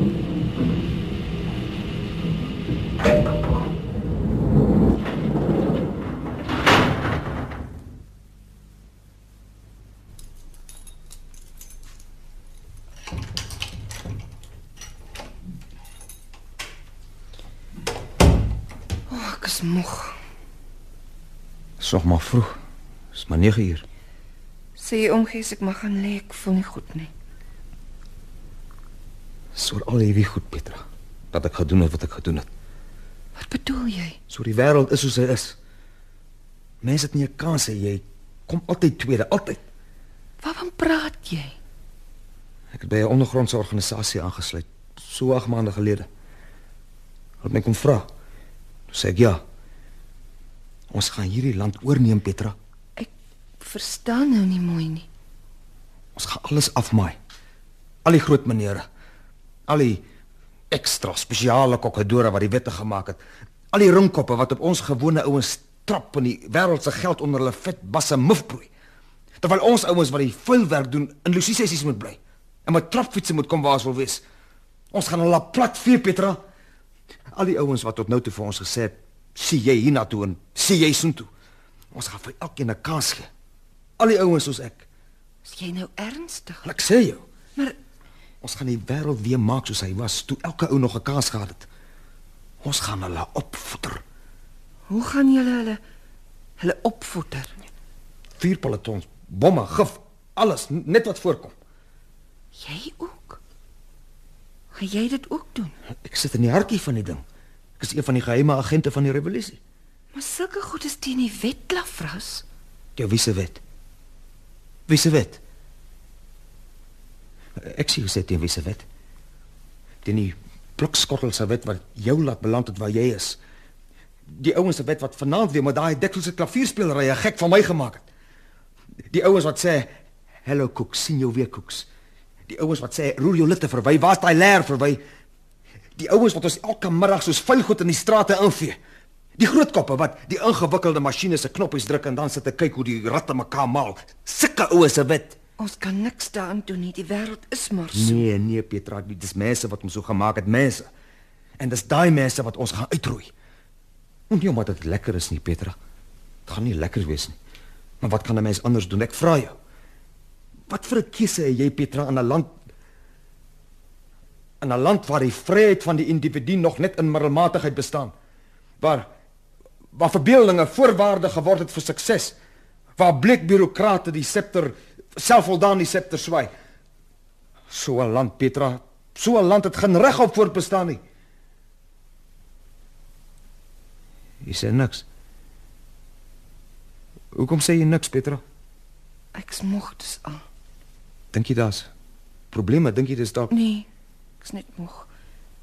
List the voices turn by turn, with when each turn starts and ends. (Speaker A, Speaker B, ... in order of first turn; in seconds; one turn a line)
Speaker A: 19.1-20.1
Speaker B: 21.8-22.6
Speaker B: 23.1-23.8
Speaker A: 24.8-27.1
Speaker B: 29.5-32.5
Speaker A: 33.4-34.2
Speaker B: 34.3-35.5
Speaker B: 36.8-39.6
Speaker A: 40.4-41.5
Speaker B: 42.7-46.1
Speaker B: 47.4-48.1
Speaker B: 48.9-49.4
Speaker B: 50.9-52.5
Speaker A: 53.0-55.1
Speaker B: 56.1-57.2
Speaker B: 58.0-58.9
Speaker B: 59.7-60.0
Speaker B: 60.7-63.2
Speaker B: 63.7-68.7
Speaker B: 69.4-74.2
Speaker B: 74.9-76.4
Speaker B: 77.3-81.3
Speaker B: 81.9-83.3
Speaker B: 84.0-84.8
Speaker A: 85.4-86.7
Speaker B: 86.6-87.2
Speaker B: 88.4-91.7
Speaker B: 92.6-94.0
Speaker A: 94.9-95.8
Speaker A: 96.6-97.5
Speaker B: 98.4-101.5
Speaker A: 102.5-103.4
Speaker A: 104.7-105.7
Speaker B: 106.0-107.2
Speaker B: 107.8-109.6
Speaker A: 110.1-112.4
Speaker B: 113.0-113.6
Speaker B: 114.9-115.4
Speaker B: 117.6-118.8
Speaker B: 120.0-123.4
Speaker B: 124.3-128.1
Speaker B: 129.1-129.9
Speaker B: 130.4-131.9
Speaker B: 132.5-135.0
Speaker B: 135.9-138.8
Speaker B: 139.4-145.4
Speaker A: 145.6-148.2
Speaker B: 147.9-150.9
Speaker B: 151.6-153.3
Speaker B: 154.3-155.8
Speaker B: 156.5-157.4
Speaker B: 158.0-159.6
Speaker B: 160.7-162.5
Speaker B: 164.6-168.1
Speaker B: 168.8-169.1
Speaker B: 169.9-172.3
Speaker B: 173.0-176.5
Speaker B: 177.7-181.0
Speaker B: 184.4-185.0
Speaker B: 187.3-188.4
Speaker A: 189.3-190.4
Speaker B: 191.3-191.9
Speaker B: 192.5-193.5
Speaker A: 193.5-193.9
Speaker A: 194.4-195.1